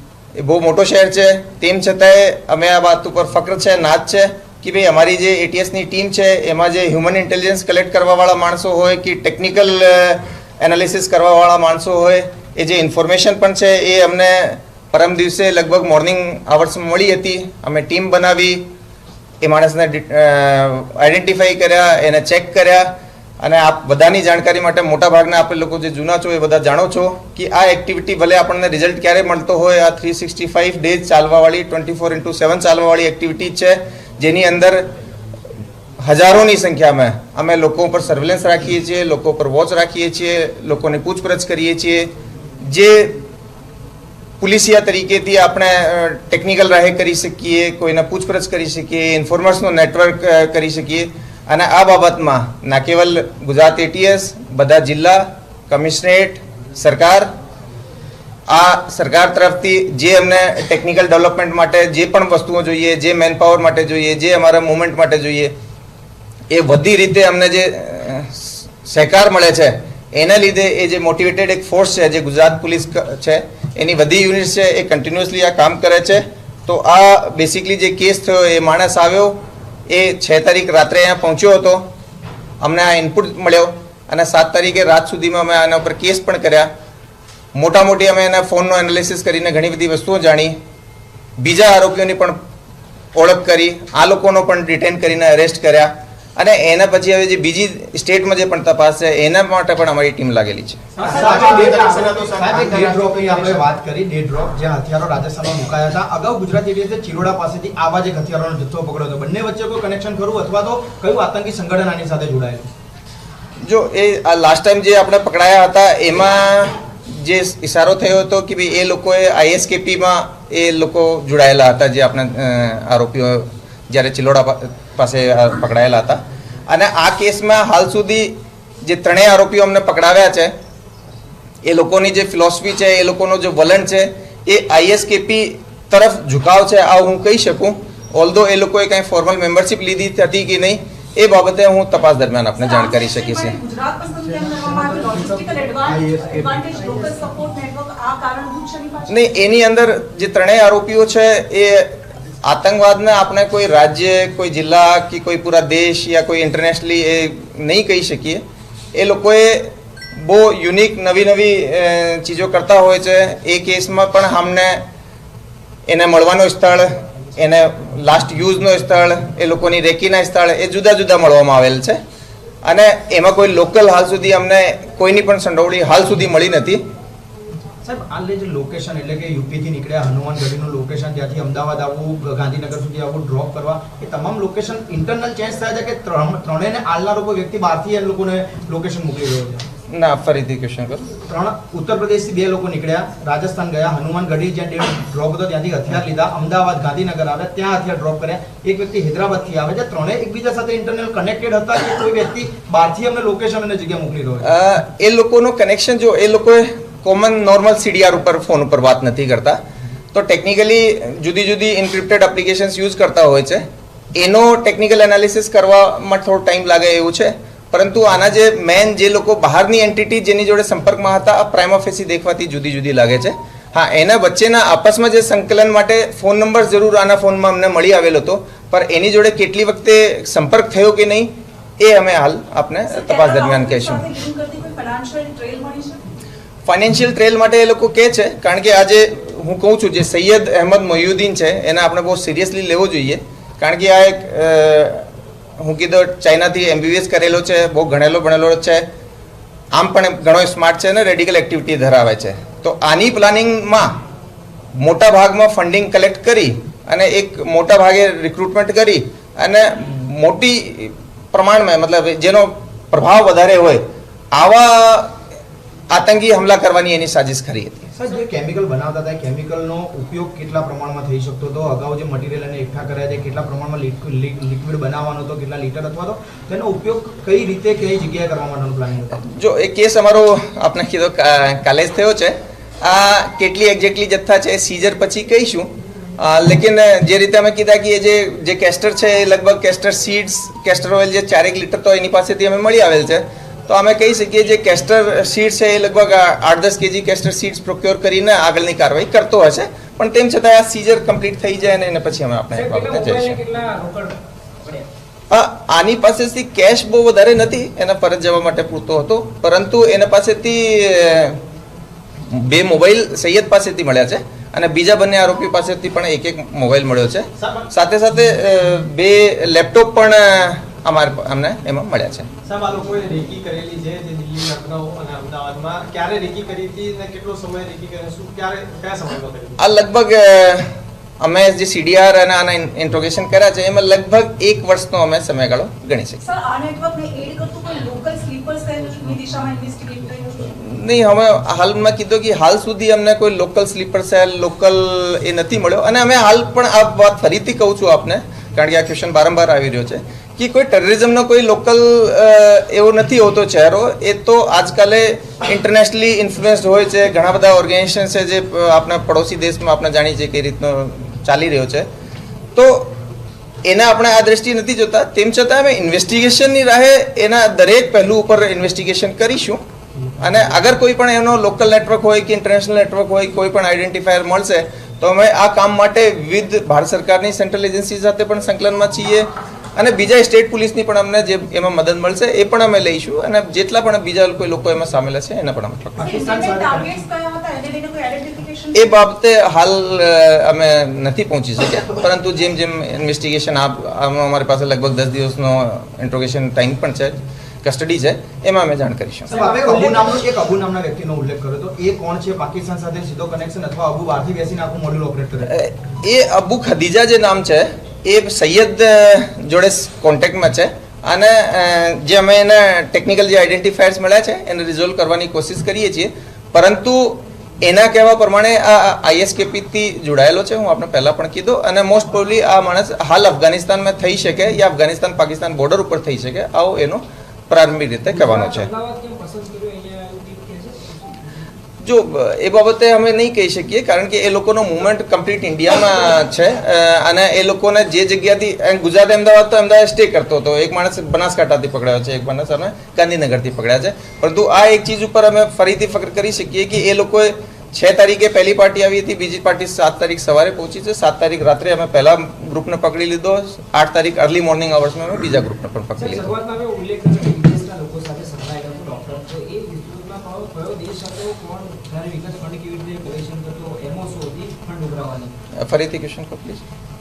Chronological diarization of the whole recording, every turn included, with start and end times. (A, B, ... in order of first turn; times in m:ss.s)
0:00.4-0:18.6 A
0:19.4-0:34.9 A
0:36.0-0:43.2 A
0:44.4-0:57.3 A
0:58.5-1:05.5 A
1:06.5-1:21.9 A
1:22.6-1:26.7 A
1:27.5-1:30.6 A
1:31.4-1:32.4 A
1:33.1-1:40.8 A
1:41.0-1:43.6 B
1:41.0-1:52.7 C
1:53.6-2:10.5 A
2:11.6-2:23.6 A
2:22.6-2:29.2 D
2:25.8-2:26.6 B
2:29.1-2:44.8 A
2:45.9-2:52.0 A
2:52.6-2:56.8 A
2:57.8-3:09.6 C
3:09.9-3:11.1 A
3:11.2-3:24.5 C
3:24.4-3:29.6 A
3:30.1-3:54.0 A
3:52.9-3:56.0 D
3:56.6-4:08.8 A
4:09.7-4:14.0 A
4:14.8-4:25.2 A
4:25.9-4:27.9 A
4:27.9-4:39.2 C
4:39.2-5:03.4 A
5:02.5-5:04.9 E
5:05.3-5:11.4 A
5:12.3-5:22.3 A
5:17.4-5:17.7 B
5:22.4-5:29.6 B
5:29.6-5:36.2 A
5:36.2-5:40.5 D
5:40.4-6:01.9 A
6:02.5-6:03.0 A
6:03.6-6:09.6 A
6:10.2-6:26.1 A
6:26.0-6:28.9 D
6:26.2-6:26.8 B
6:28.7-6:39.3 A
6:39.3-6:40.1 D
6:39.3-6:45.5 C
6:45.5-7:08.7 A
7:08.1-7:11.5 E
7:11.8-7:36.3 A
7:36.0-7:45.4 E
7:45.6-7:46.6 A